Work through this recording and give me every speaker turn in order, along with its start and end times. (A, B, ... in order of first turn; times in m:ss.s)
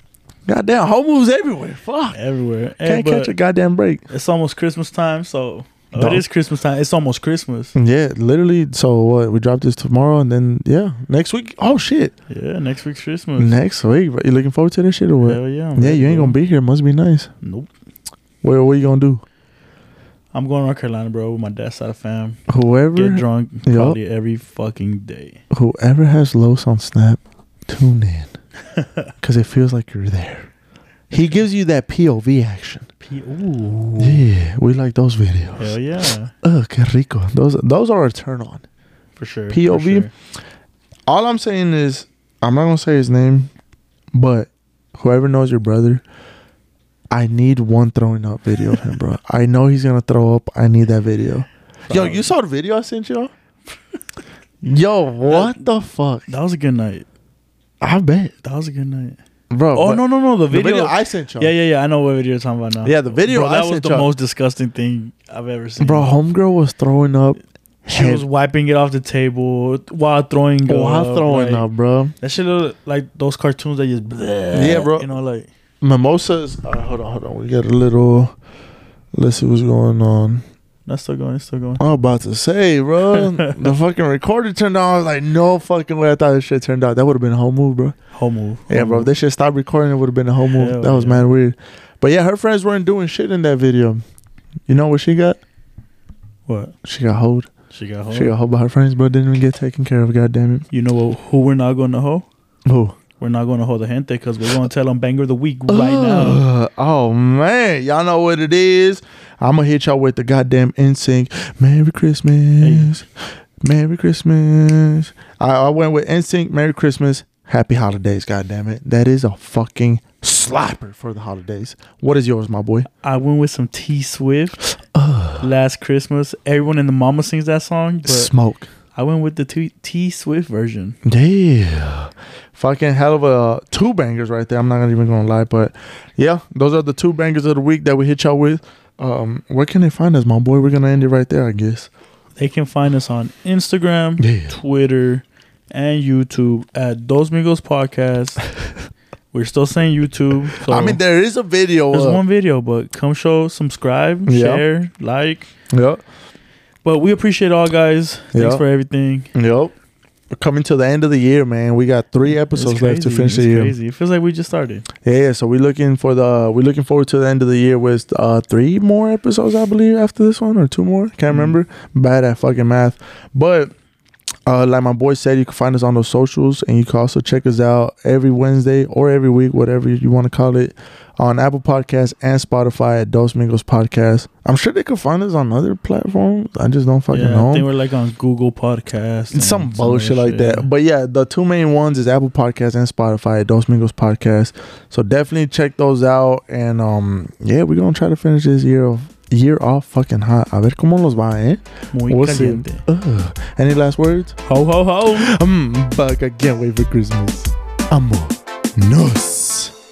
0:00.4-0:02.2 A
0:02.1-0:03.3 B
0:02.8-0:04.0 A
0:04.1-0:07.7 B
0:05.9-0:06.2 A
0:07.8-0:12.1 A
0:12.3-0:13.6 B
0:13.4-0:17.3 A
0:15.2-0:16.4 B
0:17.4-0:17.7 B
0:18.4-0:19.2 A
0:20.3-0:22.4 B
0:22.5-0:24.0 A
0:22.9-0:25.4 B
0:25.5-0:28.3 A
0:28.7-0:29.1 B
0:29.2-0:30.5 A
0:31.1-0:32.9 A
0:33.0-0:34.2 B
0:34.0-0:35.8 A
0:35.6-0:36.3 B
0:36.4-0:38.6 A
0:39.2-0:40.1 B
0:39.5-0:40.1 A
0:41.1-0:43.5 A
0:44.1-0:46.0 A
0:47.1-0:53.3 A
0:51.9-0:52.3 B
0:54.6-0:56.2 A
0:55.3-0:55.6 B
0:56.3-0:57.1 B
0:57.8-0:58.3 A
0:58.4-0:59.2 B
0:59.5-1:01.5 A
0:59.7-1:06.1 B
1:02.8-1:04.1 A
1:05.8-1:08.2 A
1:07.9-1:11.6 B
1:10.7-1:12.1 A
1:12.2-1:15.5 B
1:14.5-1:15.1 A
1:15.8-1:18.3 A
1:19.1-1:20.4 A
1:20.9-1:21.8 B
1:21.8-1:28.0 A
1:23.1-1:23.6 B
1:28.1-1:29.1 B
1:28.7-1:34.0 A
1:30.5-1:31.3 B
1:34.7-1:35.4 A
1:36.5-1:36.7 B
1:36.8-1:37.5 A
1:37.7-1:38.3 B
1:38.1-1:40.6 A
1:40.7-1:42.2 B
1:42.6-1:43.0 A
1:43.2-1:46.4 B
1:45.7-2:02.9 A
1:52.6-1:52.9 B
2:03.0-2:04.6 B
2:04.8-2:05.5 A
2:05.4-2:08.3 B
2:08.0-2:08.7 A
2:08.9-2:11.0 B
2:11.0-2:21.9 A
2:22.4-2:28.4 B
2:24.2-2:24.5 A
2:29.3-2:31.0 B
2:30.6-2:32.2 A
2:31.9-2:35.5 B
2:34.3-2:34.6 A
2:35.7-2:36.0 A
2:36.8-2:39.3 B
2:38.3-2:38.6 A
2:39.3-2:39.7 A
2:40.3-2:43.7 A
2:42.3-2:44.9 B
2:45.0-2:53.7 A
2:51.3-2:51.6 B
2:54.5-3:07.7 A
3:07.1-3:10.7 B
3:09.3-3:24.4 A
3:21.9-3:22.8 B
3:24.4-3:25.3 B
3:25.1-3:29.7 A